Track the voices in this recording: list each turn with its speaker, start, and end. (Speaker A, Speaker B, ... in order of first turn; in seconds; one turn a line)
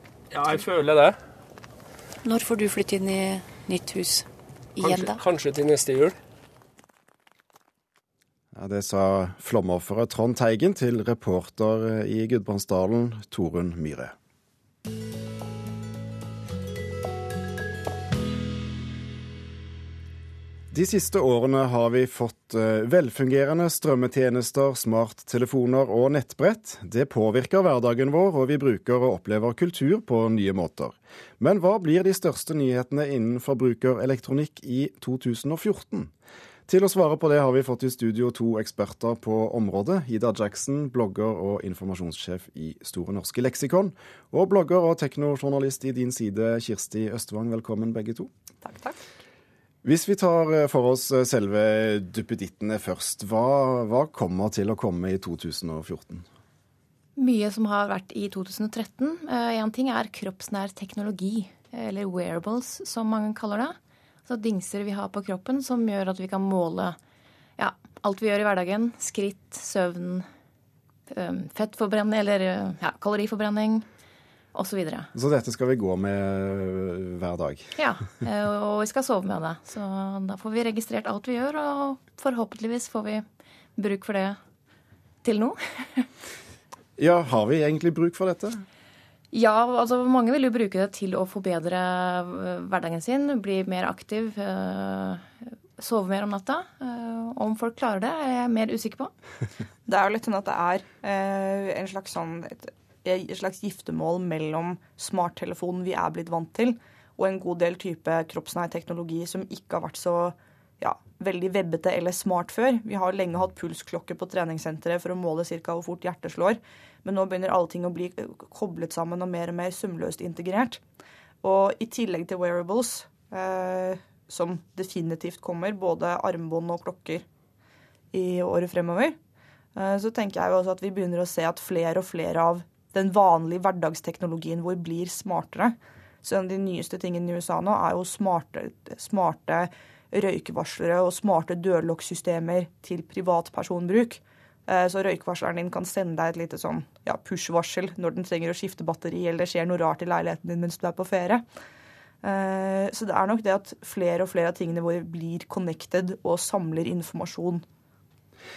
Speaker A: 0.3-1.1
Speaker B: 2.2-4.2
Speaker B: 4.8-5.2
Speaker A: 4.8-6.1
Speaker C: 8.5-14.1
Speaker C: 20.7-36.1
Speaker C: 36.7-48.3
Speaker D: 48.6-49.0
Speaker C: 49.8-56.2
Speaker E: 57.2-63.7
Speaker E: 64.2-67.0
Speaker E: 67.6-70.2
Speaker E: 71.1-73.8
Speaker E: 74.5-75.1
Speaker C: 75.1-77.7
Speaker E: 77.8-83.2
Speaker E: 83.8-84.3
Speaker E: 85.2-86.0
Speaker C: 87.0-88.6
Speaker E: 89.3-95.2
Speaker E: 95.8-99.1
Speaker D: 99.8-120.8
Speaker D: 121.4-127.2
Speaker D: 128.1-129.2
Speaker D: 129.8-151.4
Speaker D: 152.2-157.6